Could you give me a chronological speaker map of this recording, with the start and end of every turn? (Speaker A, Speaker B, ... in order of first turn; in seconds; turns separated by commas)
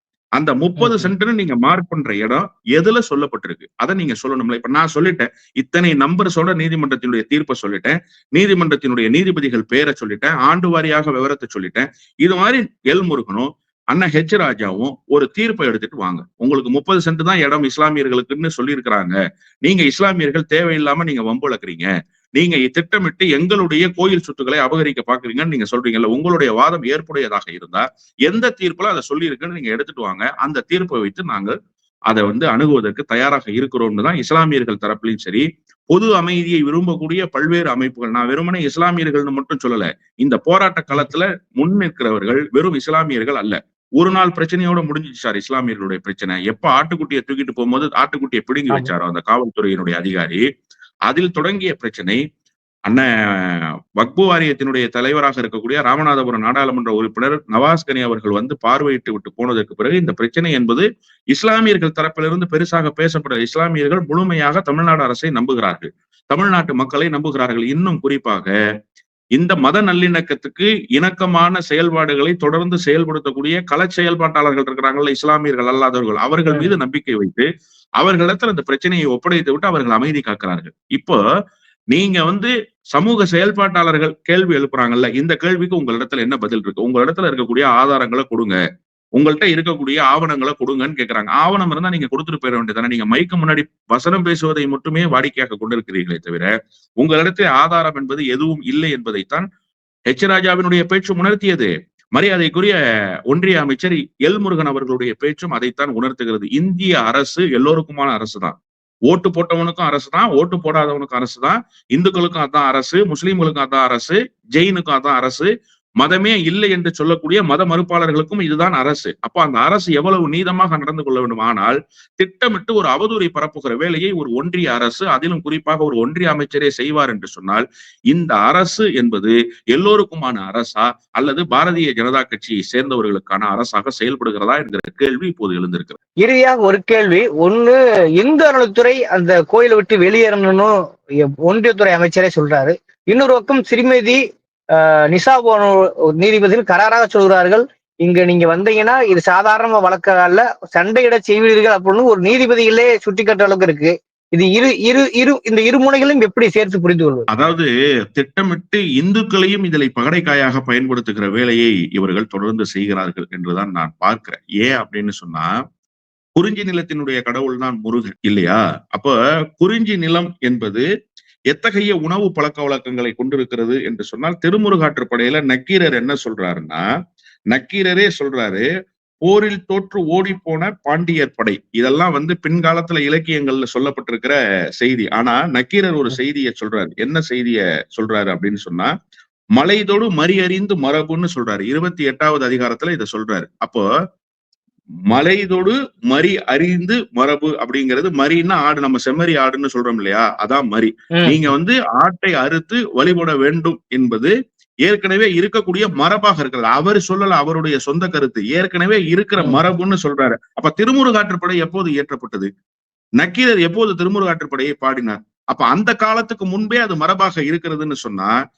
Speaker A: 0.4-31.6, Speaker B: 0.8-1.1, Speaker A: 32.1-50.4, Speaker A: 51.1-52.2, Speaker A: 52.9-68.5, Speaker A: 69.4-77.5, Speaker B: 76.5-76.7, Speaker A: 78.0-81.2, Speaker A: 81.9-88.6, Speaker A: 89.2-99.5, Speaker A: 100.1-102.8, Speaker A: 103.3-108.6, Speaker A: 109.1-136.0, Speaker B: 136.2-140.7, Speaker B: 141.5-144.2, Speaker B: 144.8-157.3, Speaker A: 157.3-165.5, Speaker A: 166.4-170.8, Speaker A: 171.5-176.8, Speaker A: 177.5-178.7, Speaker A: 179.2-188.9, Speaker A: 189.6-193.8, Speaker A: 195.1-204.3, Speaker B: 201.2-201.5, Speaker A: 204.9-212.5, Speaker B: 209.4-209.7, Speaker A: 213.2-218.3